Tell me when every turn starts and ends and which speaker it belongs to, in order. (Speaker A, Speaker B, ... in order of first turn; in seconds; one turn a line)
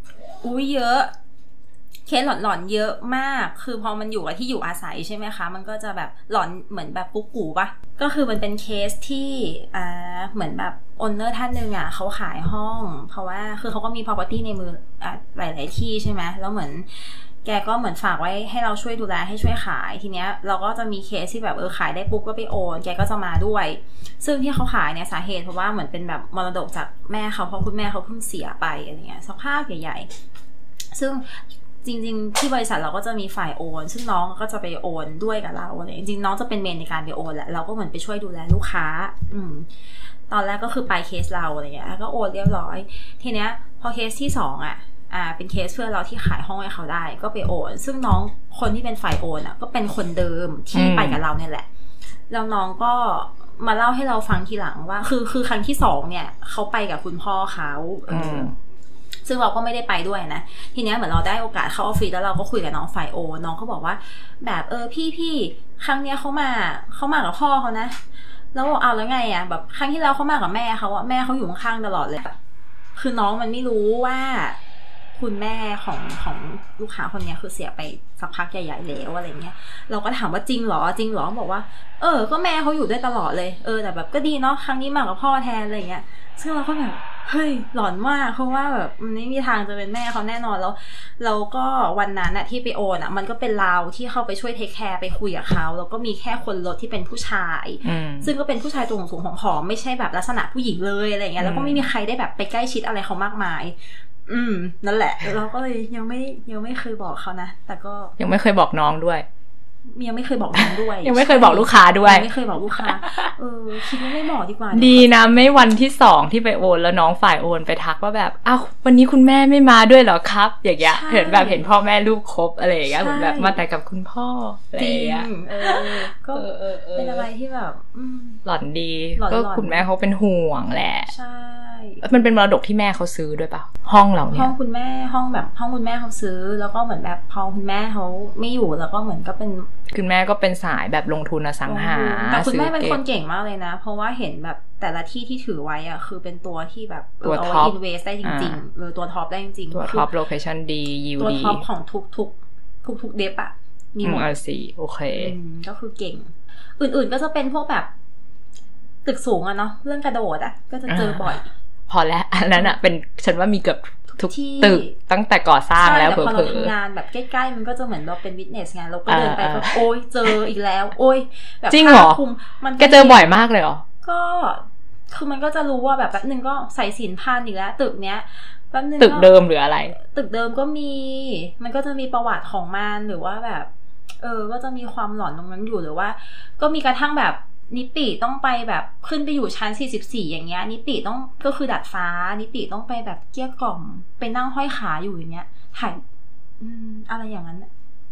Speaker A: 0.4-1.1
Speaker A: 2.1-30.1
Speaker A: 30.9-39.7
Speaker A: 40.3-51.7
Speaker B: 50.7-51.2
Speaker A: 52.3-58.5
Speaker B: 58.1-58.5
Speaker A: 59.2-68.0
Speaker A: 68.5-72.4
Speaker A: 73.0-74.6
Speaker A: 75.1-108.2
Speaker B: 97.8-98.3
Speaker B: 101.4-101.9
Speaker B: 108.2-109.3
Speaker A: 109.9-115.1
Speaker B: 110.5-112.3
Speaker B: 112.8-113.3
Speaker B: 114.7-127.3
Speaker A: 120.9-121.7
Speaker A: 122.9-123.6
Speaker A: 124.8-128.4
Speaker B: 128.4-131.1
Speaker A: 129.2-129.9
Speaker A: 131.1-132.0
Speaker B: 132.0-134.5
Speaker A: 134.3-139.7
Speaker B: 139.9-143.0
Speaker A: 141.7-150.1
Speaker B: 147.2-148.6
Speaker B: 149.7-151.6
Speaker A: 151.2-154.3
Speaker B: 154.0-155.3
Speaker A: 155.1-157.9
Speaker A: 159.1-161.5
Speaker B: 160.9-161.3
Speaker B: 161.9-166.7
Speaker A: 164.2-164.9
Speaker A: 165.8-173.3
Speaker B: 169.1-170.3
Speaker B: 171.7-172.2
Speaker B: 172.8-173.8
Speaker A: 174.0-179.3
Speaker B: 179.0-179.9
Speaker A: 180.0-183.7
Speaker A: 184.2-196.0
Speaker A: 196.6-197.7